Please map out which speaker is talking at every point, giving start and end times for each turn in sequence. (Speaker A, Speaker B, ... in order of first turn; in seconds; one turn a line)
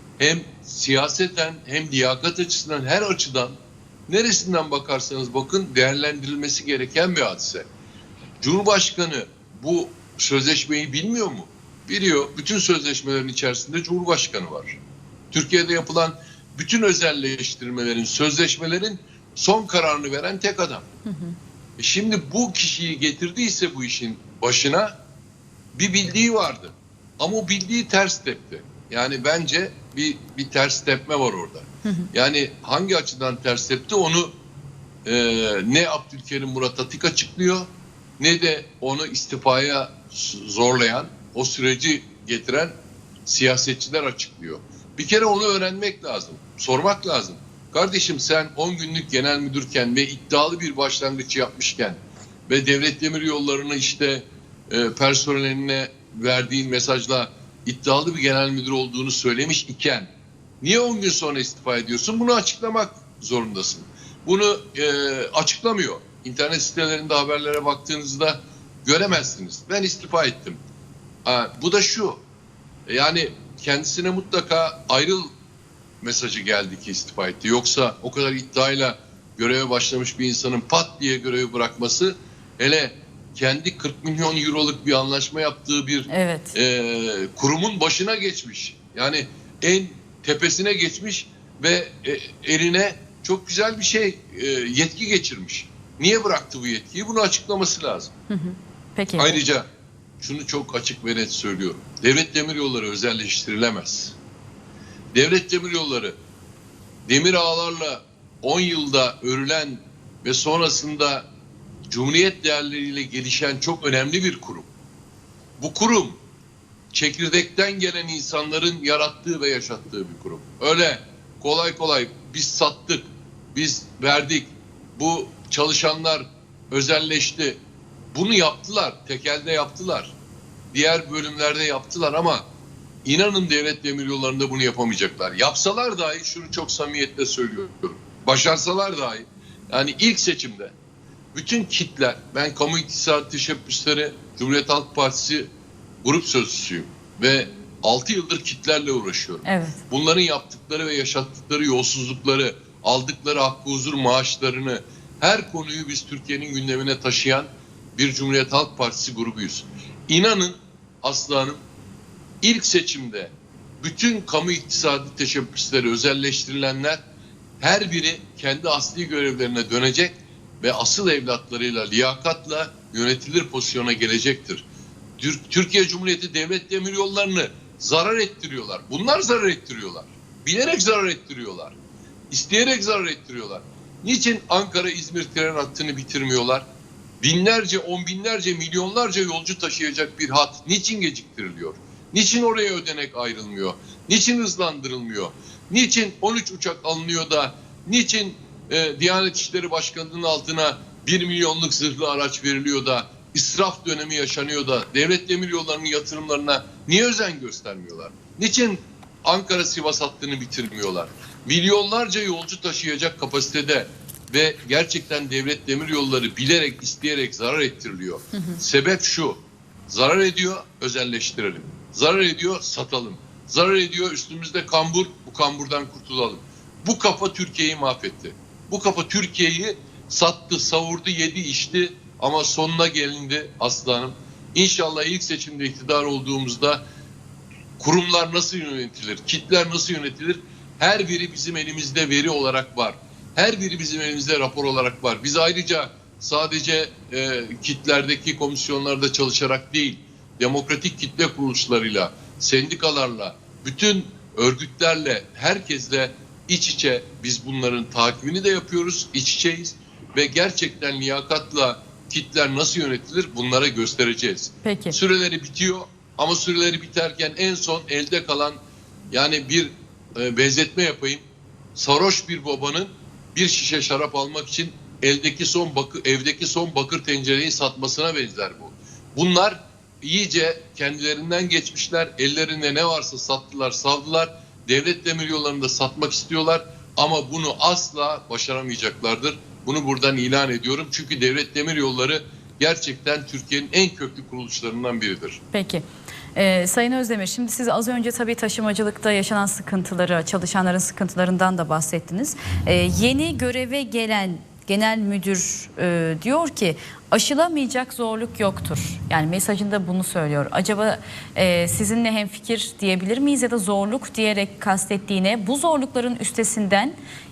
Speaker A: 0.2-7.7
Speaker A: 8.4-14.8
Speaker A: 15.3-20.9
Speaker B: 21.1-21.3
Speaker A: 21.8-24.9
Speaker A: 25.8-34.4
Speaker A: 35.0-42.7
Speaker A: 43.3-70.6
Speaker A: 71.2-72.2
Speaker A: 72.9-75.3
Speaker A: 76.0-98.1
Speaker B: 86.1-86.5
Speaker B: 98.3-99.4
Speaker A: 99.2-99.7
Speaker A: 100.2-104.2
Speaker A: 105.1-106.2
Speaker A: 107.1-111.3
Speaker A: 111.9-114.7
Speaker A: 115.6-116.2
Speaker A: 116.9-127.6
Speaker A: 128.1-130.2
Speaker A: 130.7-132.4
Speaker A: 133.1-140.7
Speaker A: 141.3-145.5
Speaker A: 146.0-161.6
Speaker B: 149.4-149.8
Speaker A: 162.4-167.0
Speaker A: 167.6-174.7
Speaker A: 175.2-181.8
Speaker A: 182.3-186.7
Speaker A: 187.2-236.8
Speaker B: 218.3-218.6
Speaker A: 237.8-268.6
Speaker B: 264.6-265.0
Speaker A: 269.1-271.2
Speaker A: 271.8-295.4
Speaker B: 295.5-317.0